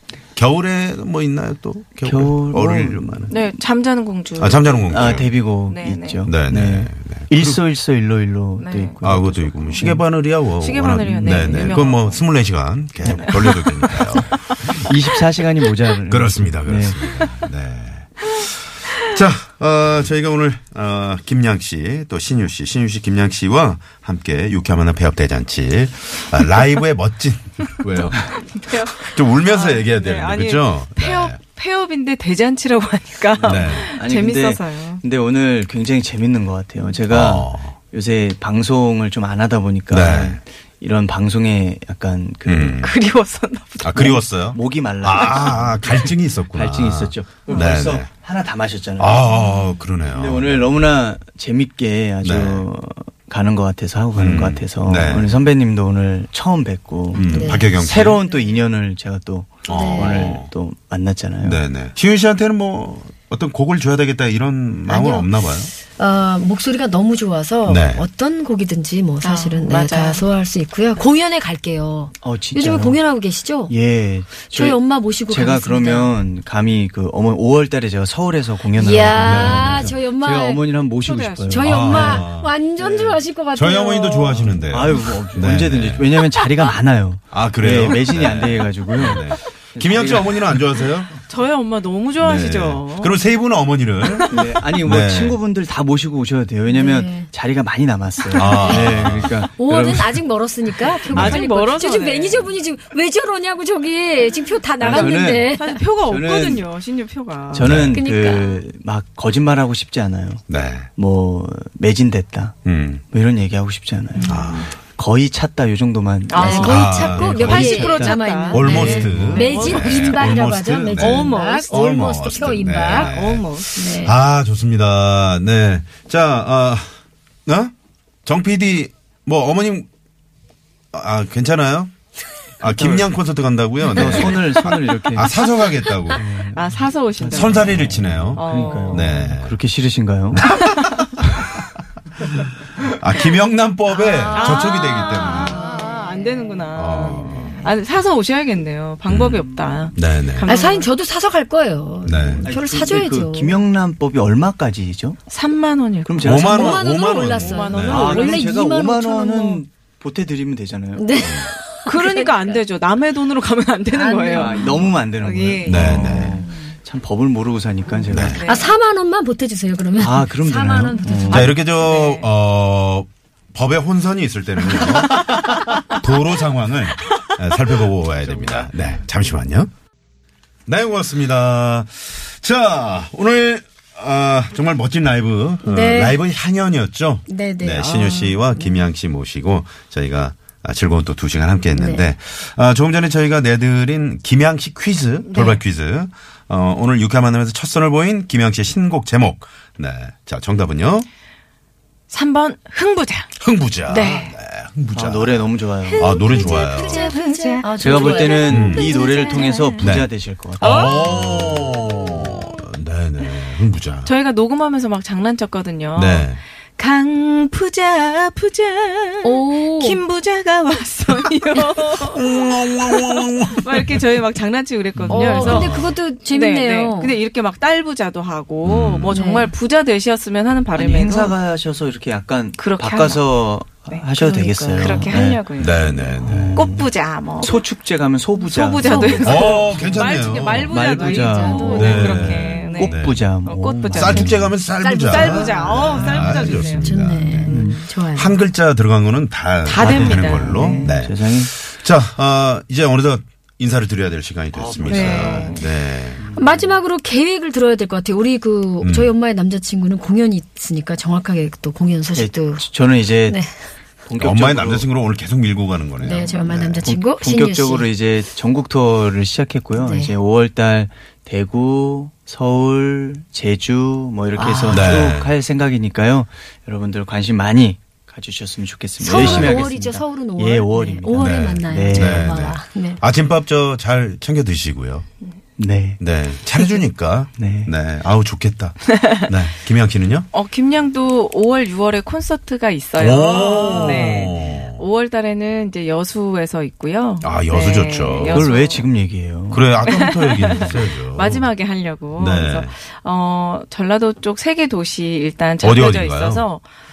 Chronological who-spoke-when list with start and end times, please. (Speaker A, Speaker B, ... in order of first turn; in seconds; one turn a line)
Speaker A: 0.3-3.3
Speaker B: 2.0-3.5
Speaker C: 3.3-6.2
Speaker A: 4.4-5.5
Speaker B: 4.9-10.1
Speaker A: 6.2-7.6
Speaker C: 8.6-9.0
Speaker A: 9.0-14.7
Speaker C: 10.6-12.3
Speaker B: 11.2-11.6
Speaker C: 13.0-14.8
Speaker B: 14.8-17.0
Speaker A: 16.1-31.4
Speaker C: 28.1-35.0
Speaker B: 33.4-42.9
Speaker A: 33.4-33.9
Speaker A: 37.1-37.8
Speaker A: 39.9-40.4
Speaker A: 42.5-42.9
Speaker C: 42.8-44.1
Speaker A: 43.8-48.1
Speaker B: 43.9-49.4
Speaker A: 49.0-50.8
Speaker B: 50.1-61.6
Speaker A: 52.2-52.7
Speaker A: 54.1-55.3
Speaker A: 57.1-58.2
Speaker D: 57.2-57.7
Speaker A: 59.6-60.5
Speaker D: 59.7-60.4
Speaker A: 61.4-65.7
Speaker D: 64.9-73.7
Speaker A: 67.7-68.1
Speaker C: 69.2-70.2
Speaker B: 72.2-73.0
Speaker B: 73.7-82.2
Speaker D: 74.4-76.2
Speaker D: 78.8-80.7
Speaker A: 79.2-79.9
Speaker C: 81.0-81.7
Speaker D: 81.5-84.7
Speaker A: 81.6-82.5
Speaker B: 82.8-83.2
Speaker A: 83.5-86.1
Speaker B: 84.7-90.8
Speaker A: 87.3-91.1
Speaker C: 91.1-93.2
Speaker A: 92.2-95.4
Speaker C: 94.0-94.5
Speaker B: 94.3-100.2
Speaker D: 96.7-97.3
Speaker D: 98.3-105.8
Speaker A: 98.3-99.4
Speaker C: 101.0-102.5
Speaker A: 101.1-101.4
Speaker C: 104.8-107.8
Speaker B: 104.8-105.5
Speaker B: 106.0-106.7
Speaker B: 107.5-112.6
Speaker A: 107.5-108.0
Speaker D: 107.9-108.6
Speaker A: 110.5-110.9
Speaker A: 112.6-113.0
Speaker B: 113.1-119.5
Speaker C: 114.1-114.7
Speaker A: 114.2-114.7
Speaker C: 116.3-116.8
Speaker D: 116.3-123.2
Speaker A: 116.6-117.7
Speaker C: 117.3-122.0
Speaker A: 118.5-126.9
Speaker B: 120.6-121.0
Speaker C: 122.8-124.0
Speaker D: 123.7-124.1
Speaker A: 127.5-127.7
Speaker A: 128.2-129.9
Speaker A: 130.9-131.9
Speaker A: 132.6-136.2
Speaker B: 132.6-133.1
Speaker B: 133.9-135.6
Speaker B: 136.1-140.5
Speaker C: 136.5-137.8
Speaker A: 137.3-139.5
Speaker C: 138.3-139.1
Speaker A: 140.4-140.7
Speaker C: 140.4-141.2
Speaker A: 141.2-141.6
Speaker A: 142.9-145.6
Speaker C: 144.3-150.9
Speaker A: 146.7-147.6
Speaker A: 149.1-149.4
Speaker A: 149.9-150.5
Speaker D: 150.4-153.6
Speaker A: 152.0-152.5
Speaker B: 152.4-155.2
Speaker C: 155.3-158.5
Speaker B: 156.1-156.8
Speaker A: 156.2-158.1
Speaker D: 156.4-159.6
Speaker B: 157.8-161.5
Speaker D: 160.9-162.6
Speaker A: 161.2-161.5
Speaker C: 161.8-166.4
Speaker D: 163.9-164.9
Speaker B: 164.3-168.5
Speaker A: 165.6-166.4
Speaker A: 168.1-168.4
Speaker C: 168.1-168.7
Speaker D: 168.4-171.5
Speaker B: 170.0-171.6
Speaker A: 171.3-179.7
Speaker C: 171.3-172.3
Speaker B: 178.2-178.7
Speaker A: 180.7-201.1
Speaker D: 185.6-186.2
Speaker D: 187.3-188.7
Speaker D: 191.7-192.1
Speaker C: 195.2-195.6
Speaker C: 202.1-203.3
Speaker A: 203.4-207.1
Speaker C: 203.9-204.3
Speaker B: 204.9-206.1
Speaker C: 205.8-209.8
Speaker D: 206.0-209.7
Speaker B: 207.8-210.9
Speaker A: 208.4-208.9
Speaker A: 209.8-214.1
Speaker C: 210.6-212.5
Speaker C: 214.0-231.3
Speaker A: 215.9-216.4
Speaker D: 219.2-220.0
Speaker A: 221.9-224.0
Speaker D: 225.1-227.2
Speaker A: 225.2-226.0
Speaker A: 228.6-229.1
Speaker D: 229.1-229.5
Speaker B: 230.7-235.4
Speaker C: 232.5-237.6
Speaker D: 234.2-235.1
Speaker A: 235.6-236.7
Speaker B: 236.2-236.9
Speaker B: 237.4-239.8
Speaker C: 238.4-244.4
Speaker D: 238.8-242.8
Speaker A: 239.2-240.8
Speaker B: 240.7-242.1
Speaker A: 241.7-243.3
Speaker B: 242.7-244.4
Speaker A: 243.8-256.2
Speaker D: 244.2-248.4
Speaker C: 245.0-246.9
Speaker B: 247.4-247.8
Speaker C: 249.6-250.9
Speaker B: 249.8-251.5
Speaker B: 254.5-255.6
Speaker C: 254.9-255.7
Speaker B: 256.2-256.7
Speaker D: 256.3-262.6
Speaker A: 258.8-259.1
Speaker B: 262.1-263.4
Speaker D: 263.2-263.6
Speaker B: 264.0-264.9
Speaker A: 264.2-266.9
Speaker D: 266.0-267.9
Speaker B: 266.8-282.5
Speaker D: 269.8-270.1
Speaker D: 274.3-275.1
Speaker A: 274.7-275.3
Speaker D: 279.0-283.0
Speaker A: 279.1-279.7
Speaker A: 281.1-285.0
Speaker B: 285.6-286.8
Speaker A: 286.0-290.3
Speaker B: 287.4-287.7
Speaker C: 290.3-298.9
Speaker A: 293.0-294.8
Speaker A: 297.2-298.5
Speaker B: 298.3-299.7
Speaker A: 299.5-301.5
Speaker C: 299.8-306.6
Speaker A: 302.1-302.7
Speaker A: 305.6-306.5